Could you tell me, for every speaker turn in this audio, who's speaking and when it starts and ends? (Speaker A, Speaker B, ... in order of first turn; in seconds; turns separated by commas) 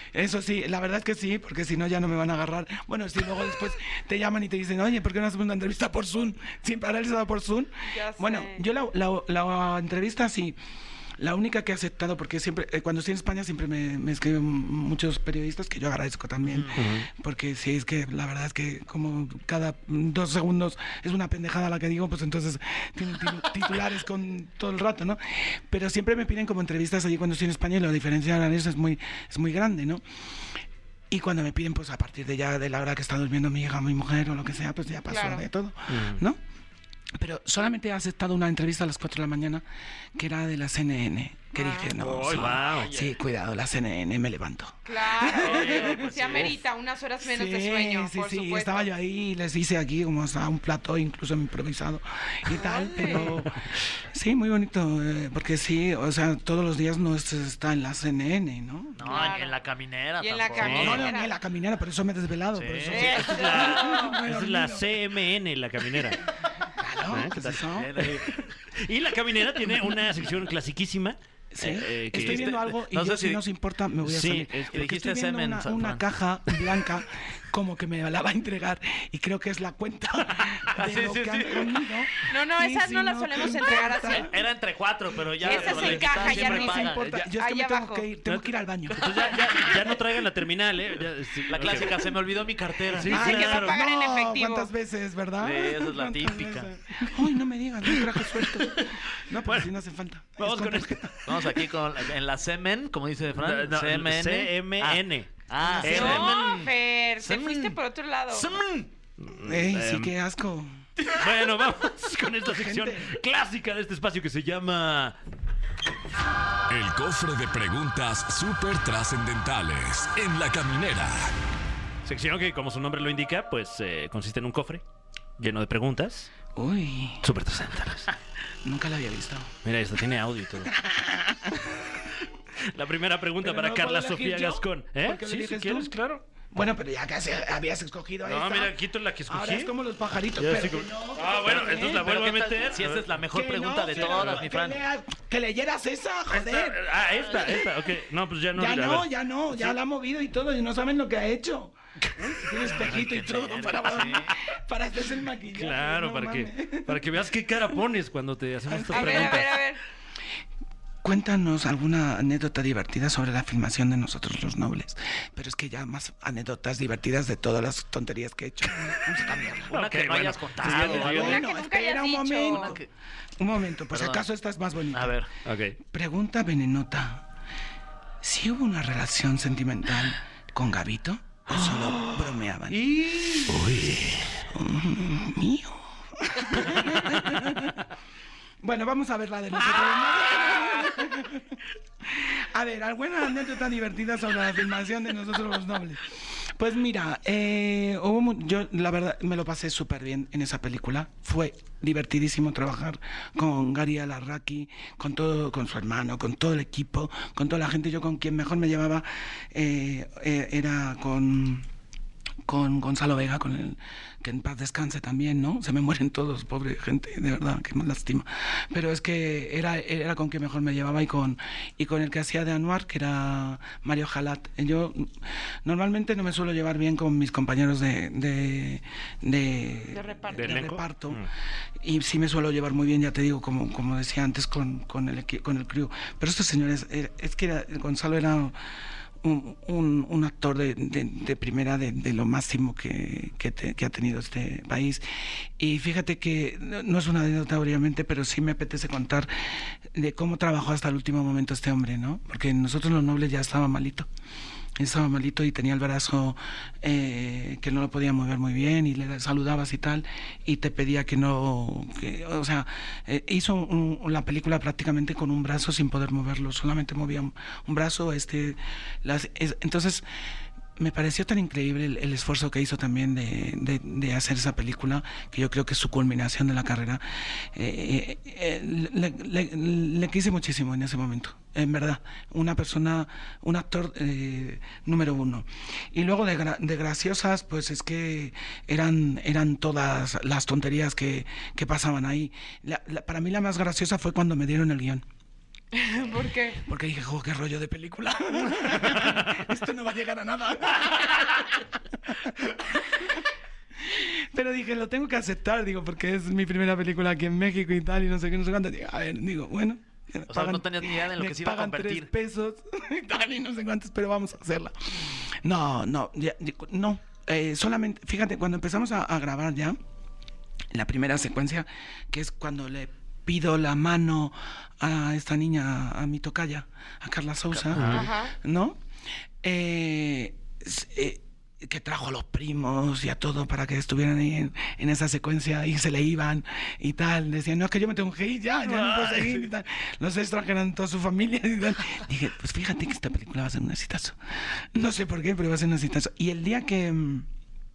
Speaker A: 0.1-10.6, Speaker B: 7.8-8.7, Speaker A: 11.2-30.0, Speaker C: 16.5-16.8, Speaker D: 16.7-17.1, Speaker A: 31.1-36.4, Speaker B: 35.1-35.5, Speaker D: 35.9-36.2, Speaker A: 37.2-39.6, Speaker A: 40.2-46.5, Speaker B: 41.5-41.9, Speaker D: 42.0-43.0, Speaker B: 44.9-48.9, Speaker D: 45.5-46.4, Speaker C: 45.5-46.5, Speaker A: 47.2-59.3, Speaker B: 52.6-53.3, Speaker C: 53.0-53.3, Speaker C: 59.0-61.1, Speaker B: 59.1-59.6, Speaker B: 60.2-61.3, Speaker D: 60.6-61.1, Speaker A: 60.7-65.0, Speaker C: 62.5-63.1, Speaker B: 62.9-64.2, Speaker D: 63.0-66.2, Speaker A: 66.7-68.5, Speaker D: 67.1-68.3, Speaker C: 67.8-68.4, Speaker D: 68.8-72.6, Speaker A: 71.5-84.3, Speaker C: 72.1-73.4, Speaker D: 74.0-74.8, Speaker C: 74.7-76.9, Speaker C: 80.8-81.8, Speaker B: 82.3-84.3, Speaker C: 84.1-87.3, Speaker A: 85.4-90.0, Speaker B: 85.5-88.1, Speaker D: 88.3-92.1, Speaker C: 89.0-89.7, Speaker C: 91.5-93.2, Speaker D: 92.9-93.8, Speaker A: 93.0-101.2, Speaker B: 93.1-94.7, Speaker C: 95.4-97.1, Speaker D: 98.6-98.9, Speaker D: 100.4-101.5, Speaker C: 101.2-106.7, Speaker D: 103.4-106.7, Speaker B: 105.8-108.5, Speaker C: 107.2-107.8, Speaker C: 108.3-108.9, Speaker D: 108.6-110.1, Speaker A: 109.3-110.8, Speaker D: 111.1-115.2, Speaker A: 112.4-113.2, Speaker E: 116.7-121.3, Speaker D: 122.0-124.8, Speaker D: 125.4-126.3, Speaker A: 126.5-127.2, Speaker D: 127.2-128.1, Speaker A: 128.6-129.5, Speaker D: 129.7-130.7, Speaker A: 130.6-132.1, Speaker D: 132.7-136.2, Speaker A: 133.4-138.8, Speaker D: 138.2-139.7, Speaker A: 139.3-142.1, Speaker D: 140.4-143.1, Speaker C: 141.4-144.8, Speaker A: 143.3-147.7, Speaker D: 143.9-144.4, Speaker D: 146.3-149.8, Speaker A: 148.5-157.2, Speaker D: 152.2-152.9, Speaker C: 152.8-154.3, Speaker D: 155.6-159.6, Speaker A: 158.7-159.5, Speaker B: 158.9-159.8, Speaker A: 161.0-169.9, Speaker C: 169.7-171.4, Speaker D: 169.7-171.4, Speaker A: 170.6-172.8, Speaker B: 171.1-172.8, Speaker C: 172.5-172.9, Speaker A: 173.4-175.2, Speaker C: 173.9-174.2, Speaker C: 174.9-175.3, Speaker D: 175.4-175.8, Speaker A: 175.8-177.2, Speaker A: 178.2-182.9, Speaker C: 183.0-183.4, Speaker D: 183.5-184.5, Speaker A: 184.4-187.9, Speaker A: 188.6-211.7, Speaker A: 212.4-231.2, Speaker B: 229.9-230.7, Speaker D: 230.3-231.3, Speaker A: 231.8-238.6, Speaker A: 239.2-254.1, Speaker A: 254.8-270.1, Speaker A: 270.8-295.1, Speaker B: 295.8-296.6, Speaker A: 296.6-303.2, Speaker A: 303.8-319.8, Speaker C: 310.3-312.1, Speaker A: 320.7-328.8, Speaker D: 327.7-328.1, Speaker B: 327.9-328.4, Speaker A: 329.4-347.3, Speaker D: 338.7-339.5